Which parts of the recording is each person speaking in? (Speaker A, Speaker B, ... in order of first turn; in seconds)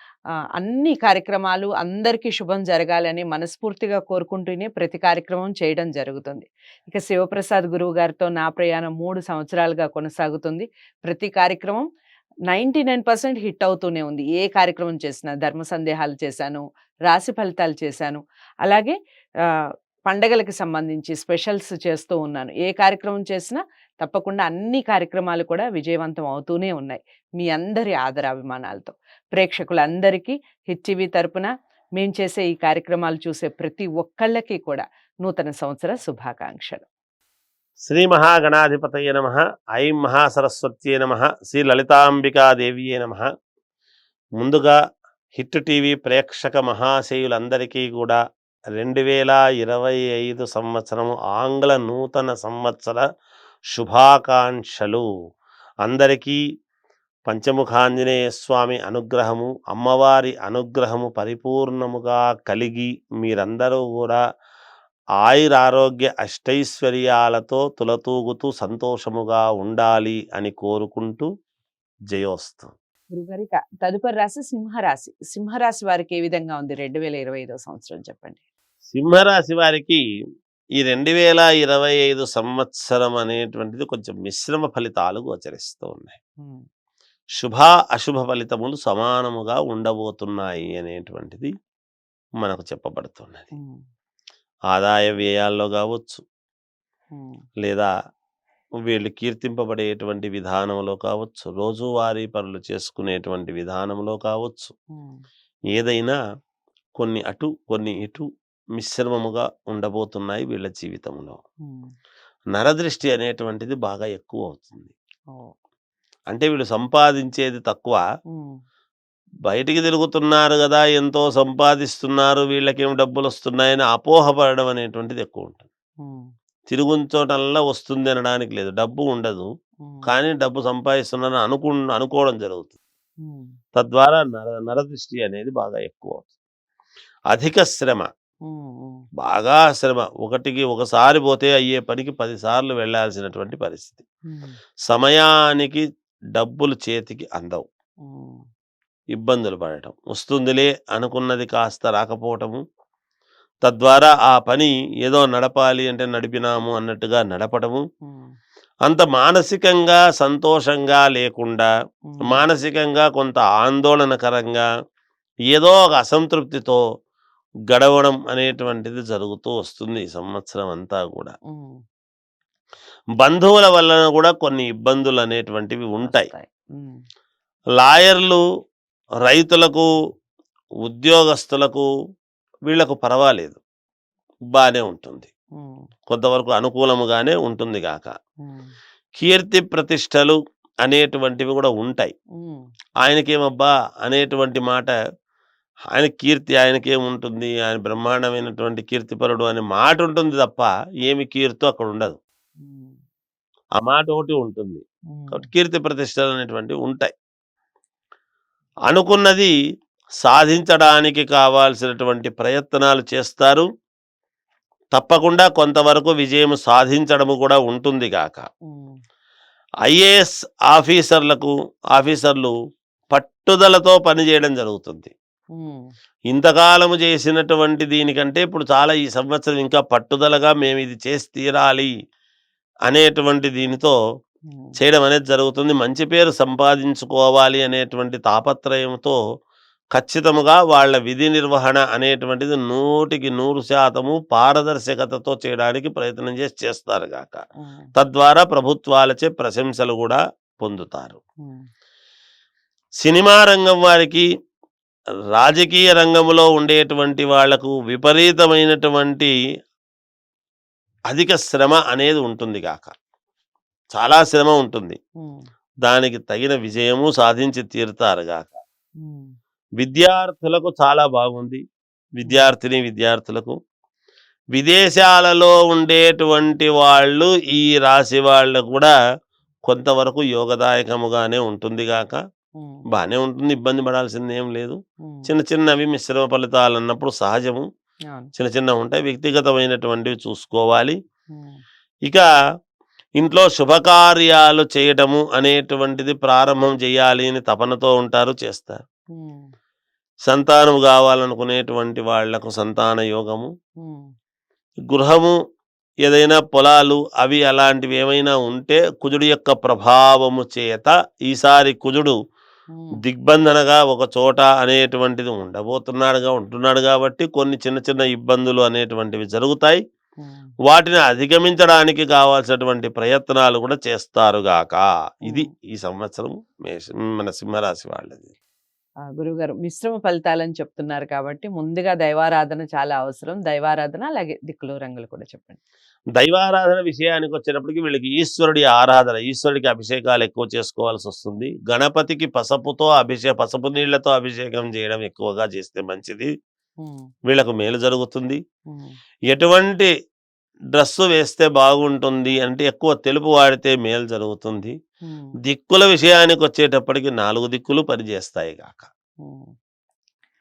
Speaker A: 0.6-11.9, 12.5-19.0, 20.1-36.9, 73.1-78.4, 97.1-97.4, 105.0-105.2, 118.3-118.6, 133.2-133.5, 138.5-139.0, 144.3-144.6, 148.0-148.4, 162.1-162.4, 171.5-171.8, 176.0-177.0, 188.4-188.7, 202.6-203.0, 205.1-205.5, 218.7-219.0, 225.6-225.8, 247.6-247.9, 269.0-269.3, 272.2-272.5, 282.6-282.8, 285.0-285.3, 291.3-291.6, 299.1-299.5, 303.8-304.1, 312.7-313.0, 320.2-320.5, 329.2-335.6, 346.8-347.1, 355.1-355.4, 359.2-359.5
Speaker B: 37.9-43.3, 44.4-44.8, 45.3-48.2, 48.8-53.0, 53.7-55.1, 55.9-56.4, 57.3-64.2, 65.2-71.3, 72.1-72.7, 78.9-80.0, 80.8-86.2, 87.4-91.5, 92.4-93.5, 94.7-96.2, 97.6-97.9, 98.9-104.7, 105.7-106.2, 107.0-108.3, 108.8-111.4, 112.5-114.9, 116.3-118.0, 119.5-125.7, 126.7-129.5, 130.1-132.8, 133.8-136.3, 137.3-138.1, 139.2-144.1, 144.9-145.8, 146.4-147.7, 149.1-152.6, 153.6-157.8, 158.9-161.7, 162.3-164.7, 165.5-166.8, 167.7-171.3, 173.2-176.3, 177.8-178.4, 179.2-179.9, 180.8-181.9, 182.7-183.6, 184.5-185.3, 186.1-188.1, 189.2-192.1, 193.0-194.9, 195.9-202.2, 203.8-207.1, 208.9-209.5, 210.2-213.7, 214.9-218.5, 219.8-222.5, 223.1-225.1, 226.3-231.9, 232.9-234.0, 234.8-239.2, 239.9-247.4, 248.0-251.2, 253.0-254.3, 255.3-259.3, 261.1-262.9, 263.9-265.0, 265.8-268.6, 269.8-271.6, 272.2-273.6, 274.6-278.9, 279.7-282.2, 282.9-287.6, 288.4-291.0, 293.2-298.8, 300.3-303.5, 304.9-305.4, 306.1-312.2, 313.0-319.8, 320.7-328.4, 336.2-346.3, 347.3-348.4, 349.3-349.9, 350.7-354.8, 355.4-358.9